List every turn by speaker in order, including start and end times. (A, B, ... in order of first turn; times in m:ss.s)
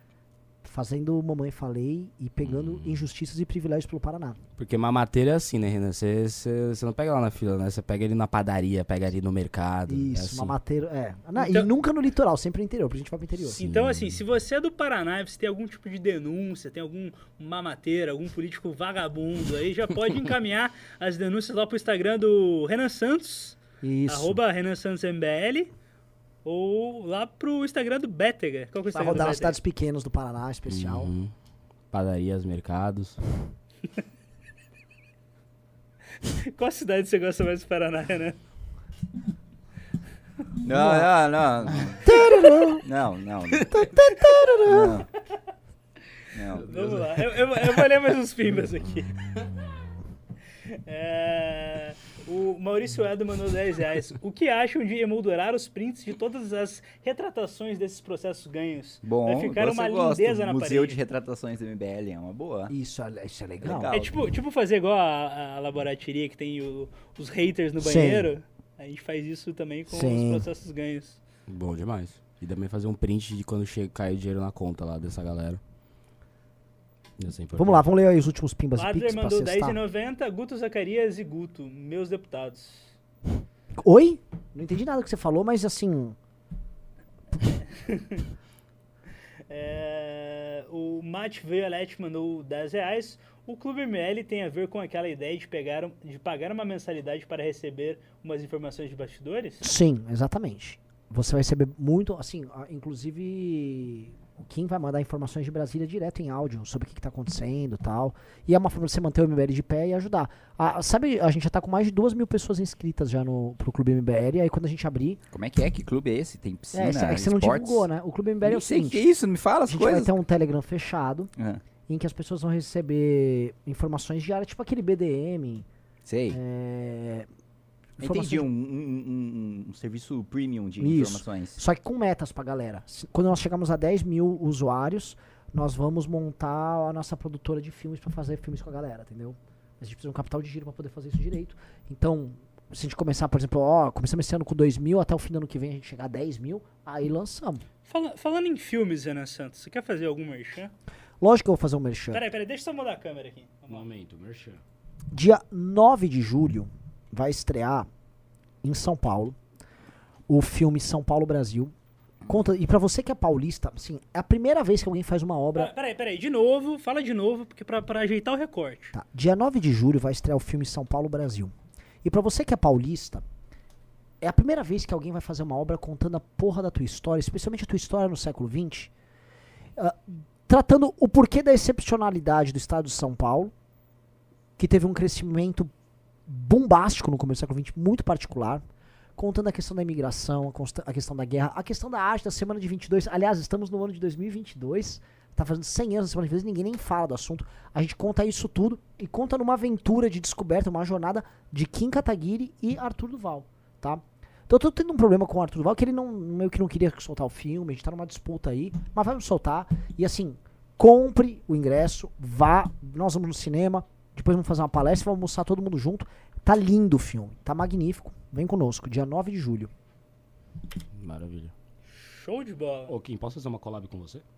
0:00.6-0:04.4 A
0:02.4-0:03.0 B
0:04.6-0:10.6 B
0:09.9-0:13.6 A
0:11.4-0:11.7 C
0:13.6-0:14.2 B
0:13.6-0:25.7 C
0:23.8-0:24.4 A
0:26.4-0:29.6 C
0:28.9-0:31.1 A
0:30.7-0:31.3 B
0:31.9-0:33.2 B
0:36.3-0:38.4 C
0:40.6-0:42.2 D
0:40.7-0:41.1 A
0:42.0-0:42.8 A
0:42.8-0:43.9 D
0:43.7-0:45.0 A
0:44.7-0:45.1 D
0:46.3-0:46.7 D
0:46.5-0:47.6 B
0:46.7-0:49.3 C
0:50.7-1:01.0 C
0:59.0-1:02.7 D
1:02.7-1:04.0 A
1:03.6-1:04.2 D
1:03.9-1:11.2 C
1:07.8-1:08.3 A
1:09.9-1:10.4 A
1:11.5-1:15.6 B
1:17.2-1:17.9 B
1:17.6-1:19.8 A
1:18.8-1:22.9 C
1:23.8-1:26.2 A
1:27.7-1:28.3 C
1:29.5-1:39.6 C
1:39.6-1:55.2 A
1:55.3-1:57.9 D
1:56.7-1:59.0 A
1:58.4-2:00.1 D
1:59.7-2:01.3 A
2:01.4-2:01.6 D
2:01.9-2:05.7 A
2:06.0-2:06.4 D
2:06.3-2:07.3 A
2:08.0-2:08.5 A
2:08.0-2:11.6 D
2:10.8-2:27.6 A
2:27.9-2:30.7 C
2:31.2-2:32.2 A
2:32.1-2:33.9 C
2:33.7-2:34.6 B
2:35.1-2:37.9 A
2:38.6-2:39.4 A
2:40.3-2:41.7 A
2:42.3-2:45.7 A
2:45.6-2:48.9 C
2:48.9-2:51.5 A
2:52.0-2:53.2 A
2:54.2-2:58.9 A
2:59.8-3:03.5 A
3:04.6-3:05.7 A
3:06.3-3:08.6 A
3:09.2-3:39.7 A
3:40.9-3:41.5 B
3:41.9-3:42.9 C
3:42.9-3:44.2 B